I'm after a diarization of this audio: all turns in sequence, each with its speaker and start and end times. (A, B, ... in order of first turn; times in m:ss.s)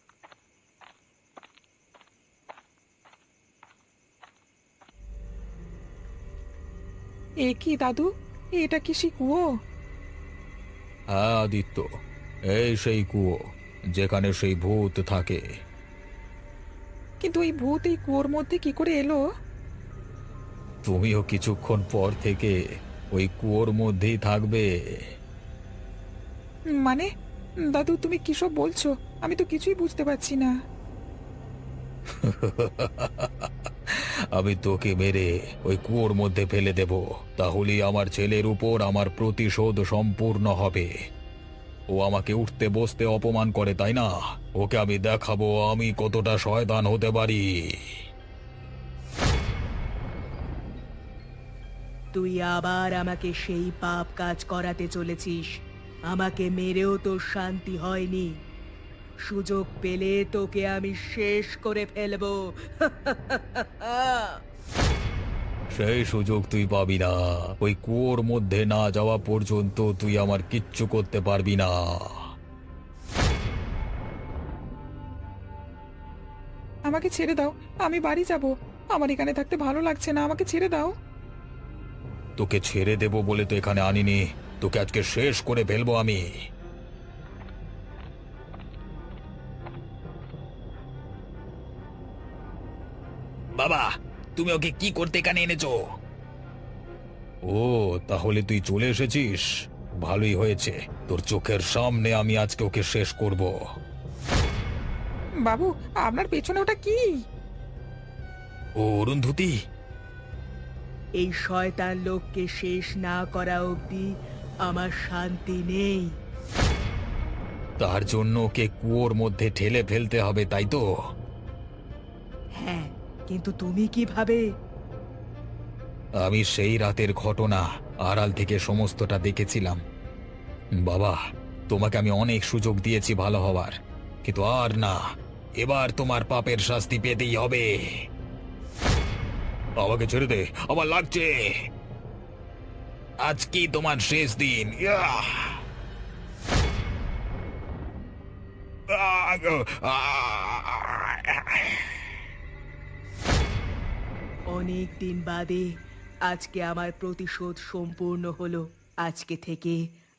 0:07.5-0:08.1 A
0:08.6-0:09.4 A
0:11.2-0:11.8 B
0:12.5-0:13.4 B
0:14.0-0:15.4 B
0:17.2-0:19.2 A
0:20.8-0:22.5 B
0:23.2-0:24.7 B
0:27.7-0:30.5 A
0:32.2-0:40.9 B
0:41.9-0:47.4 B
0:52.1-0:55.5 C
0:56.1-0:58.3 C
0:59.3-1:04.4 C
1:05.8-1:11.8 B
1:16.9-1:20.9 A
1:22.4-1:26.3 B
1:33.6-1:35.8 B
1:37.5-1:39.5 B
1:40.0-1:43.5 B
1:45.5-1:47.0 A
1:48.8-1:49.5 B
1:51.2-1:54.1 C
1:54.6-1:56.1 C
1:57.8-2:00.8 B
2:02.6-2:04.5 C
2:06.2-2:09.8 B
2:10.8-2:11.2 B
2:11.7-2:15.0 B
2:15.6-2:17.7 B
2:19.8-2:21.5 B
2:23.2-2:25.6 B
2:28.9-2:32.2 B
2:34.5-2:35.7 C
2:36.3-2:39.8 C